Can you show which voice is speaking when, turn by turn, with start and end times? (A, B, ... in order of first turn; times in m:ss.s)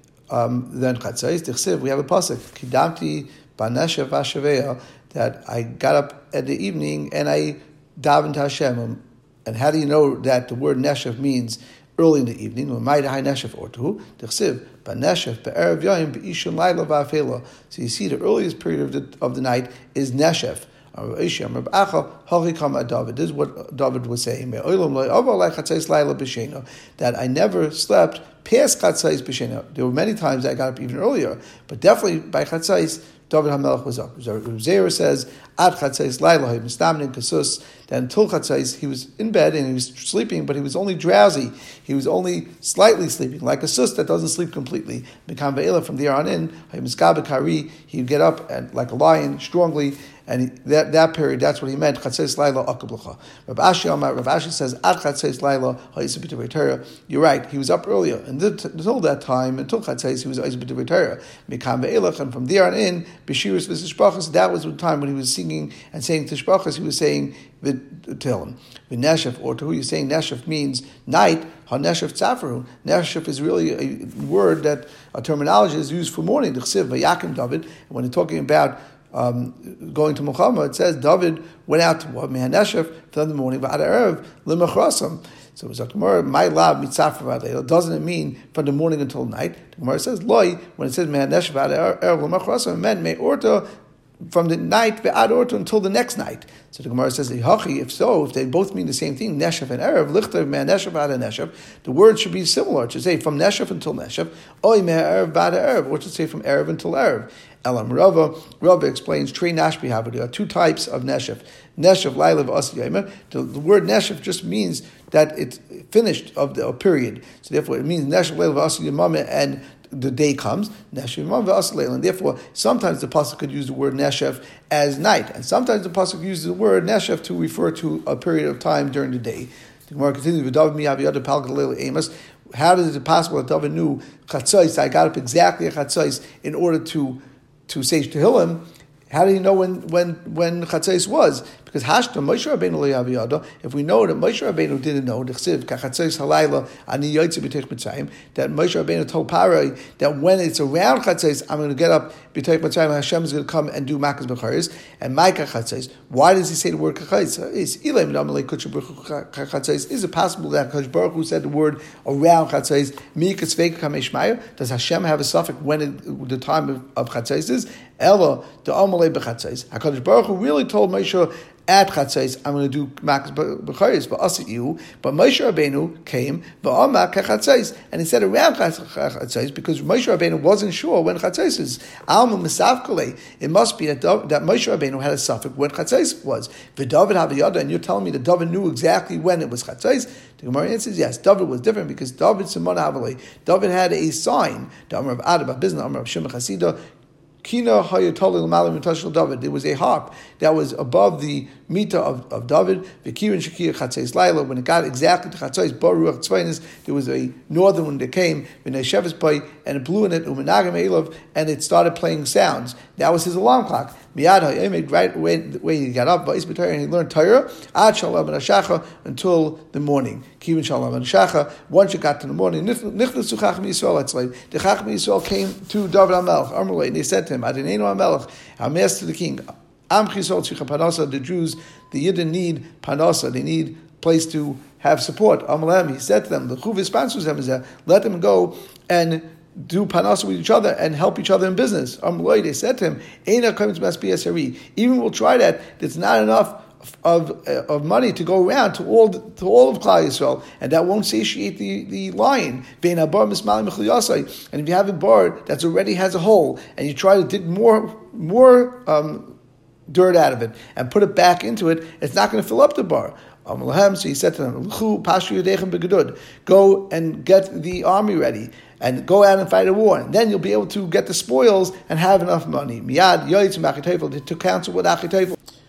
0:00.3-1:33.6 A
1:34.3-3:16.8 A
3:17.4-4:19.4 A
4:19.9-4:35.4 A